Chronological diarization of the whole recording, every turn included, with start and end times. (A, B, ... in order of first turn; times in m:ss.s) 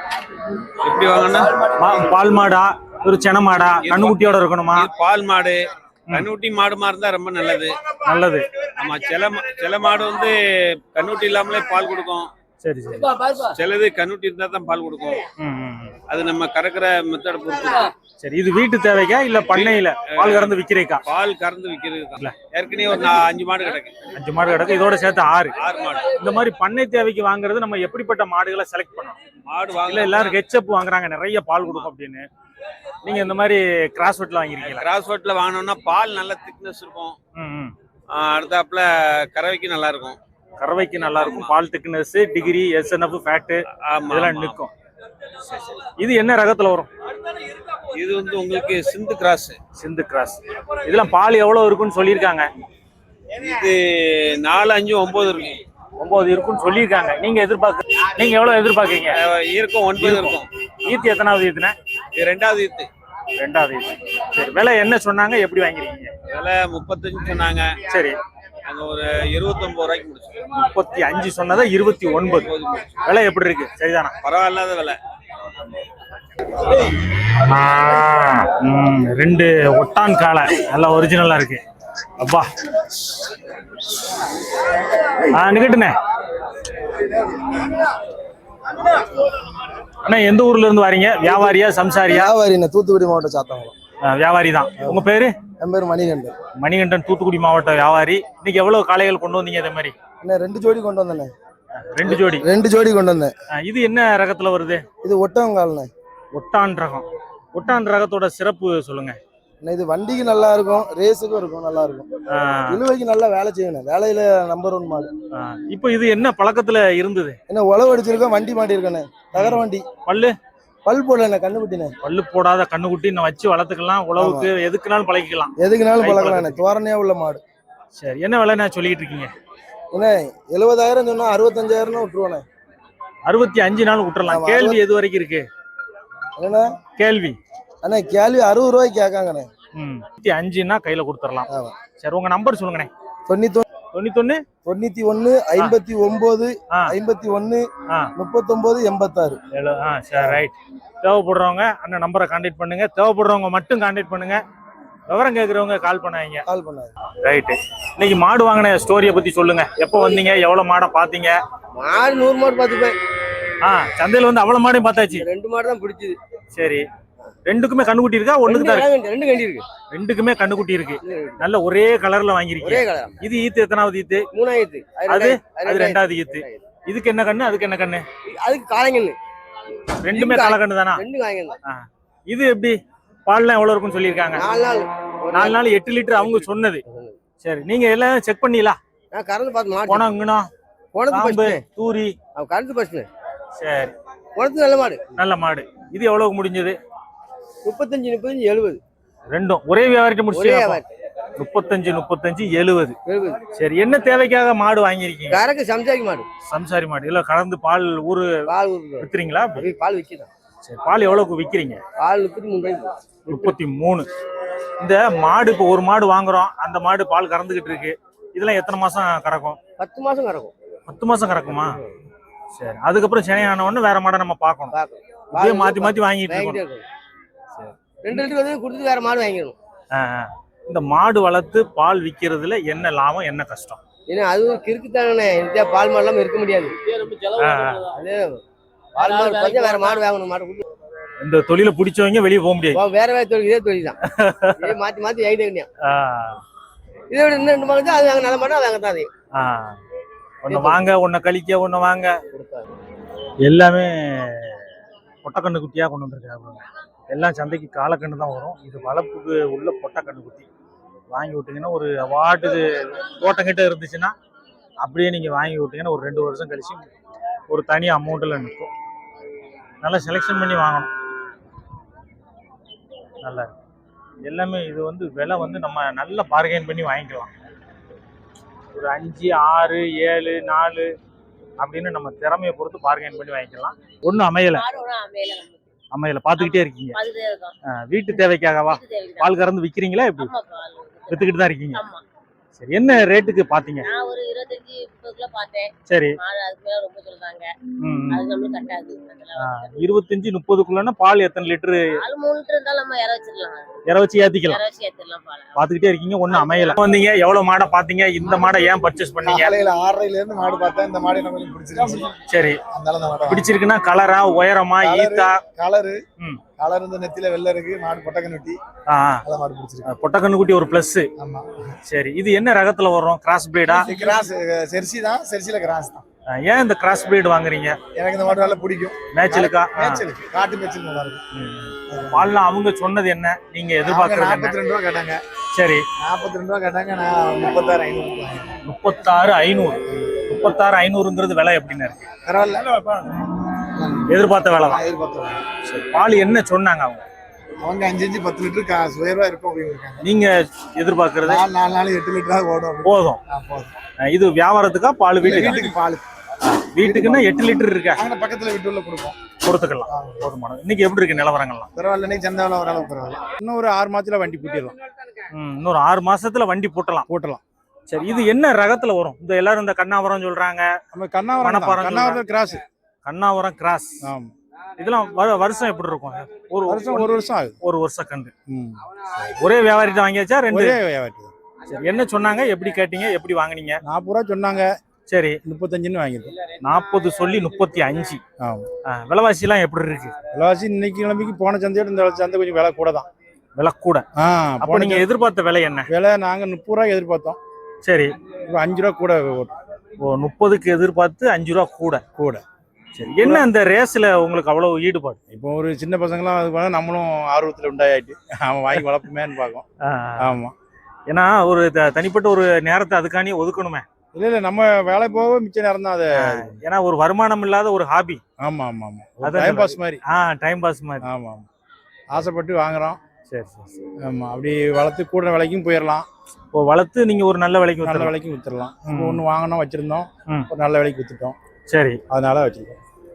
0:00.8-0:01.6 A
0:01.8-0:04.9 B
0:03.8-0:04.2 A
0:04.8-0:07.7 A
0:06.1-0:06.3 B
0:08.0-0:08.5 B
0:08.8-0:10.4 A
0:10.9-0:12.3 A
0:12.6-0:13.1 B
0:13.4-0:15.2 A
0:15.4-0:16.0 B
0:16.1-0:17.9 A
0:18.2-0:21.0 B
0:19.5-0:20.6 A
0:21.1-0:24.0 A
0:24.1-0:29.2 B
0:25.6-0:26.1 A
0:29.5-0:30.4 A
0:29.7-0:32.3 B
0:33.0-0:34.9 B
0:34.6-0:37.2 A
0:37.3-0:37.7 B
0:38.1-0:40.2 A
0:40.6-0:44.7 B
0:41.2-0:41.5 A
0:43.8-0:44.6 A
0:45.4-0:46.9 B
0:47.9-0:49.6 A
0:49.8-0:52.5 B
0:53.4-0:55.6 A
0:56.0-0:59.2 B
0:59.2-1:00.5 A
0:59.9-1:01.7 B
1:02.2-1:02.9 A
1:03.4-1:06.1 B
1:06.3-1:07.8 A
1:07.9-1:08.2 B
1:08.6-1:10.4 A
1:10.6-1:14.1 B
1:12.4-1:12.8 A
1:14.2-1:15.0 A
1:17.3-1:21.6 B
1:22.2-1:22.4 B
1:25.3-1:25.9 B
1:30.0-1:32.3 B
1:32.2-1:33.7 C
1:32.5-1:33.5 D
1:34.0-1:35.3 B
1:35.6-1:36.2 D
1:36.6-1:39.9 B
1:40.2-1:41.2 D
1:41.8-1:42.4 B
1:42.3-1:43.3 C
1:42.8-1:43.2 D
1:43.6-1:44.8 B
1:45.1-1:45.8 D
1:46.3-1:49.2 B
1:49.6-1:51.9 D
1:52.3-1:52.8 B
1:52.9-1:54.9 D
1:54.8-1:55.1 C
1:55.3-1:57.4 B
1:57.5-1:59.5 D
1:59.1-1:59.8 C
1:59.3-2:00.3 B
2:00.8-2:01.7 D
2:01.6-2:01.9 C
2:02.0-2:06.6 B
2:05.6-2:06.8 C
2:06.8-2:07.4 D
2:07.9-2:09.3 B
2:09.9-2:12.4 D
2:13.2-2:15.4 B
2:14.3-2:14.8 C
2:17.0-2:17.4 B
2:17.8-2:18.1 C
2:17.9-2:19.4 D
2:19.8-2:22.9 B
2:23.3-2:23.6 D
2:23.9-2:24.4 B
2:24.6-2:26.5 D
2:25.2-2:26.0 C
2:27.0-2:27.6 D
2:28.2-2:29.1 D
2:29.1-2:29.4 C
2:29.5-2:34.4 B
2:35.1-2:36.4 B
2:36.5-2:36.9 C
2:37.2-2:41.4 B
2:41.8-2:43.0 E
2:43.6-2:45.3 B
2:45.1-2:46.2 E
2:46.5-2:46.8 B
2:47.4-2:48.9 B
2:48.4-2:49.6 E
2:49.9-2:54.3 B
2:51.0-2:51.4 E
2:52.6-2:53.1 E
2:54.3-2:56.6 E
2:55.0-2:58.0 B
2:58.2-2:59.2 E
3:00.0-3:01.0 B
3:00.1-3:01.5 E
3:01.6-3:02.8 B
3:03.3-3:04.5 B
3:04.3-3:05.6 E
3:05.3-3:06.8 B
3:06.2-3:07.2 E
3:07.4-3:08.8 B
3:09.1-3:10.1 E
3:09.8-3:10.5 B
3:10.9-3:11.6 E
3:11.1-3:12.2 B
3:12.3-3:13.1 E
3:13.6-3:14.0 B
3:14.4-3:15.1 E
3:15.2-3:16.8 B
3:17.6-3:18.8 E
3:19.3-3:20.8 B
3:20.3-3:20.9 E
3:21.4-3:23.0 B
3:23.1-3:23.4 E
3:23.5-3:25.5 B
3:25.3-3:26.3 E
3:26.5-3:28.3 B
3:28.5-3:30.3 E
3:29.0-3:29.6 B
3:30.6-3:31.8 B
3:32.0-3:33.4 E
3:33.3-3:34.1 B
3:34.8-3:39.6 B
3:39.8-3:40.5 E
3:40.9-3:41.8 B
3:42.5-3:44.8 B
3:44.7-3:46.8 E
3:45.3-3:46.6 B
3:47.6-3:48.2 B
3:48.0-3:49.6 E
3:49.9-3:53.8 B
3:54.1-3:56.8 E
3:57.4-3:57.8 B
3:57.9-3:58.4 E
3:59.0-4:00.6 E
4:01.2-4:02.8 B
4:02.7-4:03.9 E
4:04.0-4:04.7 B
4:04.6-4:05.7 E
4:05.8-4:06.4 B
4:07.1-4:09.1 E
4:09.3-4:09.8 B
4:10.4-4:12.2 B
4:10.5-4:10.8 E
4:12.3-4:12.7 E
4:13.4-4:14.6 B
4:15.2-4:20.4 B
4:21.1-4:24.1 B
4:24.8-4:26.8 B
4:27.5-4:28.7 B
4:29.8-4:30.9 B
4:33.2-4:33.5 B
4:34.2-4:37.3 B
4:38.7-4:40.9 B
4:41.6-4:44.6 B
4:44.5-4:45.6 F
4:45.9-4:47.0 B
4:46.4-4:47.5 F
4:47.8-4:50.3 B
4:48.6-4:49.4 F
4:50.2-4:52.0 F
4:51.1-4:51.8 B
4:52.6-4:53.9 B
4:53.8-4:57.5 F
4:55.9-4:56.1 B
4:57.8-4:58.2 B
4:58.1-4:59.7 F
4:59.4-5:01.8 B
5:02.0-5:03.7 F
5:03.9-5:04.6 B
5:04.4-5:05.7 F
5:05.6-5:09.5 B
5:06.4-5:06.7 F
5:09.2-5:12.1 C
5:12.3-5:12.6 B
5:12.7-5:13.4 C
5:13.3-5:15.4 B
5:14.8-5:16.0 C
5:16.6-5:18.6 C
5:18.9-5:19.2 B
5:19.2-5:19.9 C
5:19.8-5:21.1 B
5:21.2-5:21.5 C
5:21.9-5:23.9 B
5:23.7-5:26.0 C
5:26.3-5:27.8 B
5:27.9-5:31.2 C
5:29.1-5:30.0 B
5:31.3-5:34.6 B
5:31.9-5:32.3 C
5:33.9-5:35.2 C
5:35.5-5:35.8 B
5:36.0-5:38.5 C
5:38.6-5:42.1 B
5:42.2-5:43.1 C
5:43.7-5:44.1 C
5:44.1-5:44.8 B
5:44.7-5:45.4 C
5:45.6-5:47.0 B
5:47.6-5:50.0 C
5:50.0-5:51.4 B
5:51.3-5:53.7 C
5:52.8-5:53.2 B
5:54.0-5:55.7 B
5:55.2-5:56.0 C
5:56.4-5:58.0 B
5:56.8-5:57.2 C
5:58.0-5:59.2 C
5:59.4-6:01.7 B
6:01.8-6:03.2 C
6:03.4-6:04.7 G
6:05.3-6:07.1 B
6:07.1-6:07.4 G
6:07.9-6:10.7 B
6:10.9-6:12.6 G
6:11.4-6:12.2 B
6:13.0-6:13.9 B
6:14.0-6:14.3 G
6:14.8-6:18.3 B
6:16.7-6:17.6 G
6:18.5-6:18.8 G
6:19.4-6:20.8 B
6:20.5-6:21.3 G
6:21.6-6:23.8 B
6:23.8-6:24.7 G
6:25.1-6:25.4 B
6:25.4-6:26.3 G
6:26.6-6:28.2 B
6:28.4-6:28.7 G
6:28.8-6:30.1 B
6:30.3-6:33.1 G
6:33.6-6:34.0 B
6:34.2-6:35.1 G
6:34.6-6:35.9 B
6:35.9-6:37.4 G
6:37.8-6:38.1 B
6:38.4-6:39.6 G
6:40.0-6:42.0 B
6:42.2-6:42.4 G
6:42.9-6:45.2 B
6:43.2-6:43.5 G
6:45.3-6:49.6 G
6:49.8-6:50.3 B
6:50.2-6:50.5 G
6:51.1-6:53.8 B
6:54.1-6:56.6 G
6:56.3-6:58.2 B
6:58.4-7:00.0 G
6:59.2-7:01.1 B
7:01.0-7:01.4 G
7:02.1-7:03.0 G
7:03.3-7:03.8 B
7:04.0-7:06.1 G
7:06.5-7:08.1 B
7:07.8-7:11.4 G
7:08.9-7:09.2 B
7:11.7-7:12.0 B
7:12.1-7:12.8 G